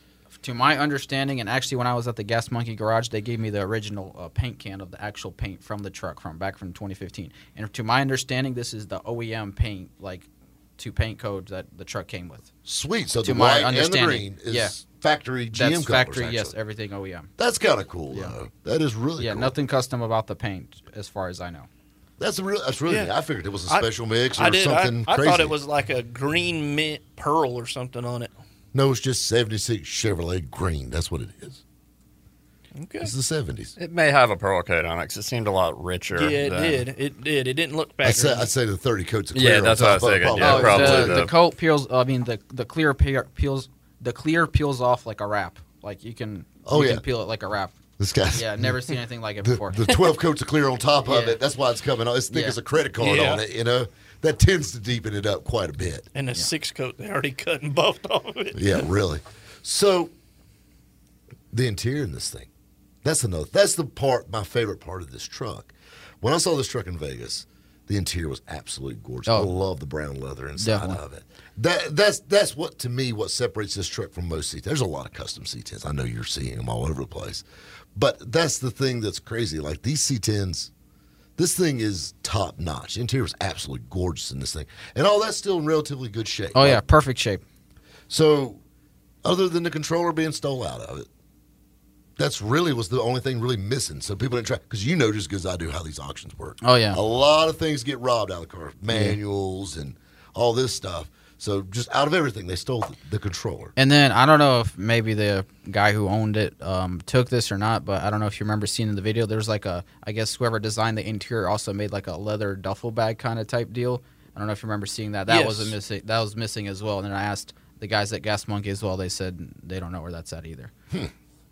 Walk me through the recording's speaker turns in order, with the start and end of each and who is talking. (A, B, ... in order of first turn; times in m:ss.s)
0:00.4-0:10.3 A
0:10.8-0:12.5 A
0:12.6-0:16.5 B
0:13.2-0:14.8 A
0:15.5-0:17.3 A
0:17.4-0:19.5 B
0:19.2-0:21.7 A
0:22.2-0:25.6 B
0:22.9-0:23.1 C
0:23.7-0:28.3 C
0:28.7-0:31.6 B
0:32.8-0:33.1 C
0:33.0-0:33.7 B
0:33.8-0:36.8 D
0:36.1-0:38.5 C
0:38.0-0:41.2 B
0:39.3-0:41.3 D
0:40.4-0:47.7 A
0:46.6-0:47.0 B
0:48.0-0:48.8 B
0:48.3-0:49.9 A
0:49.4-0:56.1 B
0:51.0-0:51.4 A
0:52.3-0:52.6 A
0:53.0-0:53.4 C
0:56.1-0:58.8 C
0:58.5-1:00.1 B
1:01.5-1:02.5 B
1:03.0-1:17.4 B
1:10.6-1:11.0 A
1:17.9-1:20.7 B
1:21.4-1:26.8 B
1:26.5-1:27.4 A
1:28.1-1:28.6 B
1:29.2-1:31.1 B
1:32.2-1:43.7 B
1:36.6-1:37.0 A
1:38.9-1:39.2 A
1:43.8-2:00.7 A
1:55.3-1:55.7 C